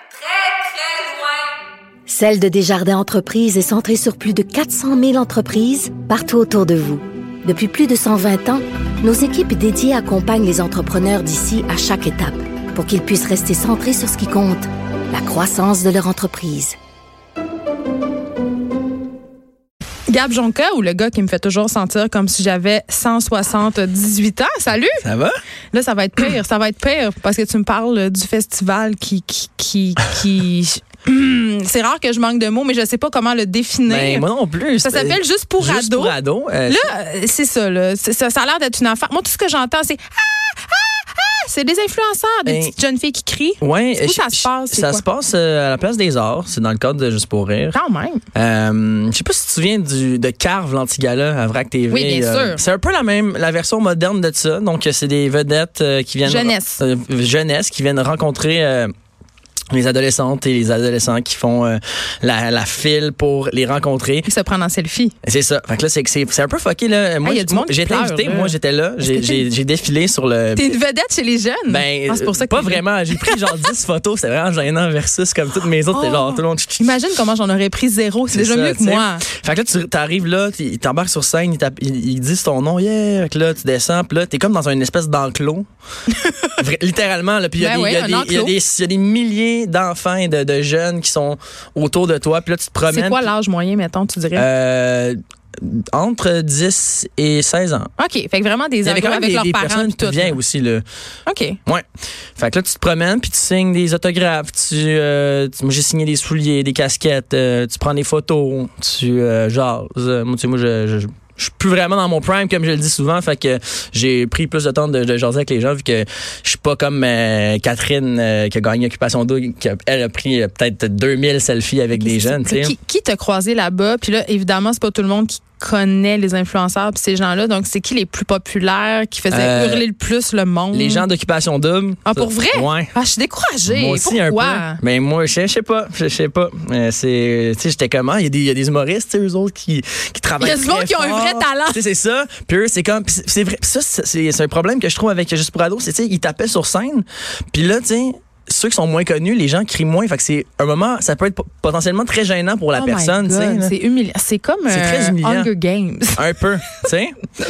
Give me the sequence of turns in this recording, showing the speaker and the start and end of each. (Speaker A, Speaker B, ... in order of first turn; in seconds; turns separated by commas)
Speaker A: 2.1-16.8, Speaker B: 20.1-25.0, Speaker C: 25.0-25.3, Speaker B: 25.7-34.3, Speaker C: 33.9-36.9, Speaker B: 34.8-45.0, Speaker C: 42.5-42.7, Speaker C: 43.6-47.8, Speaker B: 47.7-48.2, Speaker C: 48.3-58.9, Speaker B: 51.9-52.6, Speaker B: 56.2-56.8, Speaker C: 59.7-64.3, Speaker B: 64.2-65.1, Speaker C: 65.2-70.7, Speaker B: 67.2-69.5, Speaker B: 70.5-73.7, Speaker C: 71.7-77.0, Speaker B: 75.9-79.2, Speaker C: 78.3-85.7, Speaker B: 86.1-86.6, Speaker C: 86.6-93.3, Speaker B: 87.6-88.5, Speaker B: 92.9-94.5, Speaker C: 94.3-97.9, Speaker B: 98.0-100.4, Speaker C: 98.8-100.8, Speaker B: 101.3-101.6, Speaker C: 102.4-122.8, Speaker B: 122.0-131.1, Speaker C: 129.3-129.9, Speaker C: 130.7-132.9, Speaker B: 132.1-134.8, Speaker C: 133.7-153.7, Speaker B: 140.4-141.8, Speaker B: 152.8-156.3, Speaker C: 154.7-155.5, Speaker C: 156.2-157.2